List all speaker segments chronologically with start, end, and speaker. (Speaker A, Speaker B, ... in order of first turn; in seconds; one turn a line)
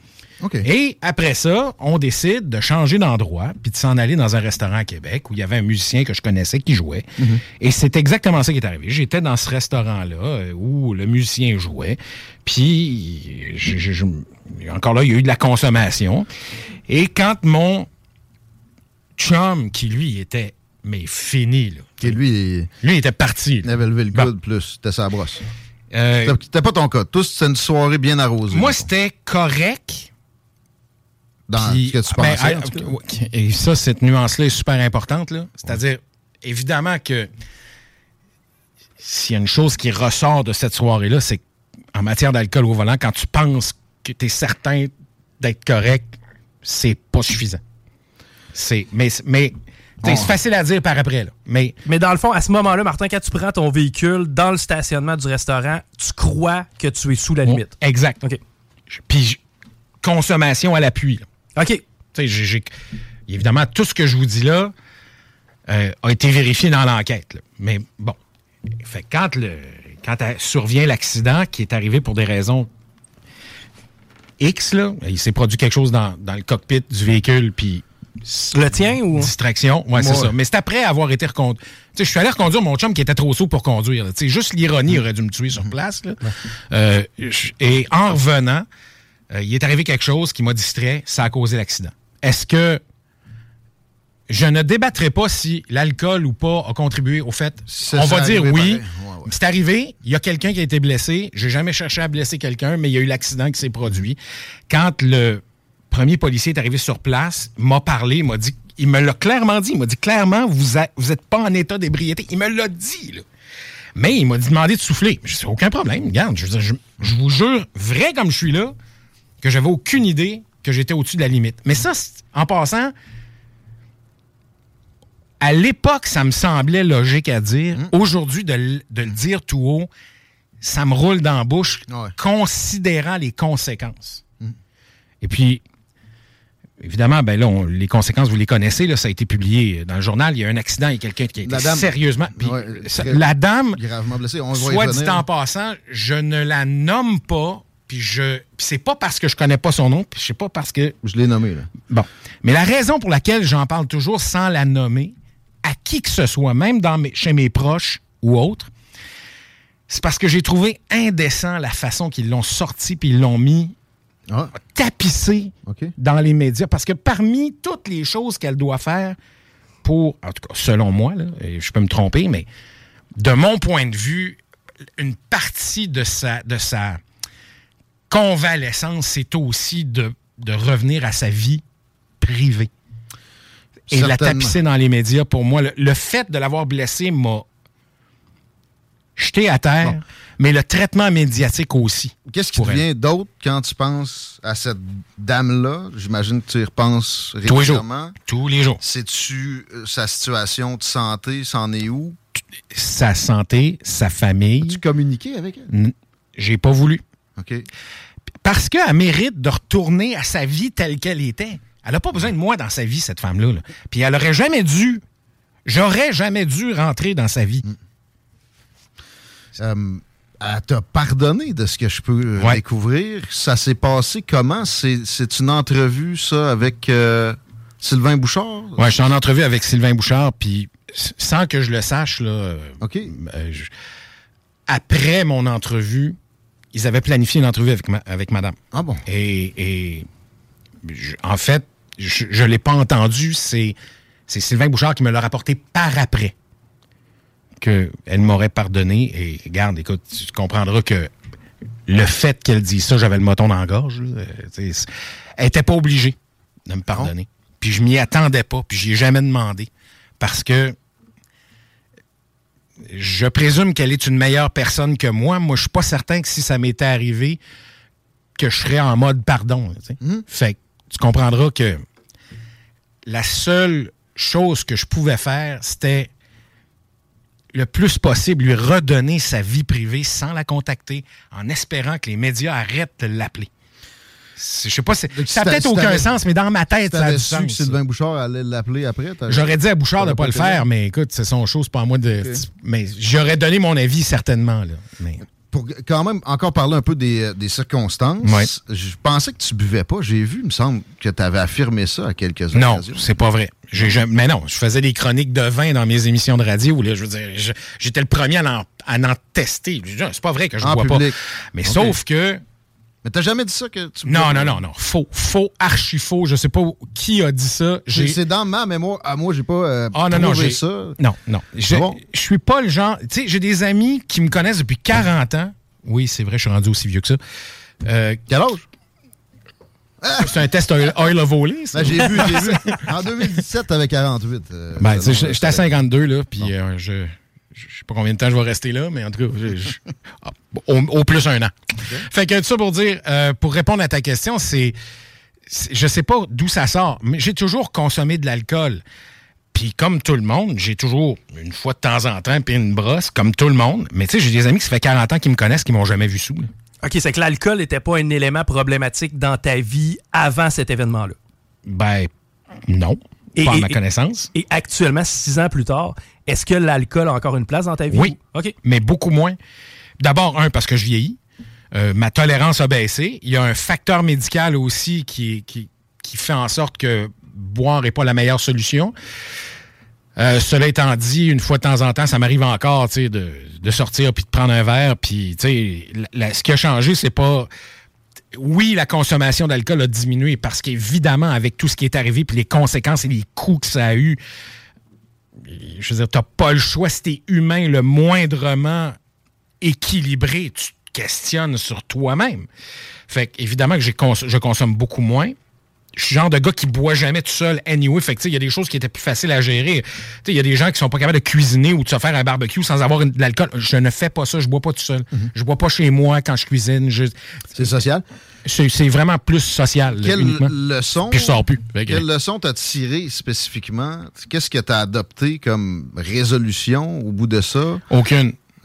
Speaker A: 0.6-16.3
Speaker A: 16.9-17.9
Speaker A: 19.2-22.2
Speaker B: 22.0-22.7
Speaker A: 22.8-24.3
Speaker B: 23.6-25.4
Speaker A: 25.9-26.4
Speaker B: 26.2-28.9
Speaker A: 28.5-30.1
Speaker B: 31.5-32.9
Speaker A: 31.6-37.3
Speaker A: 39.0-41.4
Speaker A: 41.9-47.6
Speaker A: 48.5-51.8
Speaker B: 50.0-50.3
Speaker C: 51.9-58.4
Speaker A: 57.5-58.2
Speaker A: 58.9-59.4
Speaker A: 60.0-61.3
Speaker C: 61.6-61.8
Speaker A: 62.1-62.7
Speaker A: 63.3-64.7
Speaker A: 65.7-68.2
Speaker A: 68.8-72.7
Speaker A: 74.4-86.2
Speaker C: 78.5-79.3
Speaker B: 80.0-80.3
Speaker A: 86.7-88.7
Speaker A: 89.3-92.8
Speaker A: 94.3-104.2
Speaker B: 97.7-99.3
Speaker A: 104.7-113.2
Speaker A: 114.0-118.8
Speaker A: 119.4-122.9
Speaker A: 125.4-129.9
Speaker A: 130.6-134.2
Speaker B: 131.9-132.1
Speaker A: 135.2-135.6
Speaker A: 136.8-143.8
Speaker B: 141.4-145.2
Speaker A: 144.5-151.0
Speaker B: 151.0-151.8
Speaker A: 151.8-158.7
Speaker A: 159.9-163.8
Speaker A: 164.6-169.2
Speaker B: 165.7-165.9
Speaker A: 169.8-172.5
Speaker A: 173.2-174.4
Speaker A: 175.0-177.0
Speaker A: 178.1-181.6
Speaker A: 182.2-182.7
Speaker A: 183.9-187.4
Speaker B: 183.9-184.6
Speaker A: 189.2-192.8
Speaker B: 192.3-198.2
Speaker A: 197.4-198.8
Speaker B: 198.8-202.2
Speaker A: 202.7-204.8
Speaker B: 204.6-205.7
Speaker A: 205.7-207.0
Speaker B: 207.4-207.7
Speaker A: 208.4-215.0
Speaker A: 215.7-217.6
Speaker B: 219.6-229.1
Speaker A: 228.8-233.7
Speaker B: 232.8-233.1
Speaker A: 234.7-236.2
Speaker A: 236.7-240.1
Speaker B: 238.7-239.0
Speaker A: 240.8-243.8
Speaker A: 244.3-246.3
Speaker A: 247.6-251.1
Speaker A: 251.9-256.2
Speaker A: 256.7-259.7
Speaker A: 260.2-260.8
Speaker A: 262.9-267.4
Speaker A: 268.4-271.8
Speaker A: 273.1-276.1
Speaker A: 277.5-283.5
Speaker A: 284.4-287.8
Speaker B: 285.1-286.1
Speaker B: 286.9-290.6
Speaker A: 289.3-295.2
Speaker B: 295.5-303.1
Speaker A: 298.2-298.5
Speaker A: 302.5-312.4
Speaker B: 310.6-311.9
Speaker B: 313.0-314.6
Speaker A: 314.1-318.2
Speaker B: 317.9-321.0
Speaker A: 319.9-327.2
Speaker B: 321.7-322.0
Speaker A: 327.8-328.2
Speaker B: 328.3-328.7
Speaker B: 330.0-331.1
Speaker A: 330.2-333.4
Speaker B: 331.7-335.7
Speaker A: 334.8-344.8
Speaker A: 345.5-348.8
Speaker A: 349.5-356.5
Speaker C: 356.8-361.2
Speaker A: 361.7-362.1
Speaker A: 362.7-364.3
Speaker C: 363.4-363.8
Speaker C: 364.3-368.6
Speaker A: 367.9-369.4
Speaker A: 370.0-371.2
Speaker A: 371.7-378.9
Speaker A: 380.2-387.5
Speaker A: 388.3-394.2
Speaker A: 395.4-399.0
Speaker A: 399.6-402.5
Speaker A: 403.1-405.4
Speaker A: 406.0-417.1
Speaker B: 417.6-418.0
Speaker A: 418.4-420.5
Speaker B: 419.9-427.8
Speaker A: 421.1-422.1
Speaker A: 427.9-428.4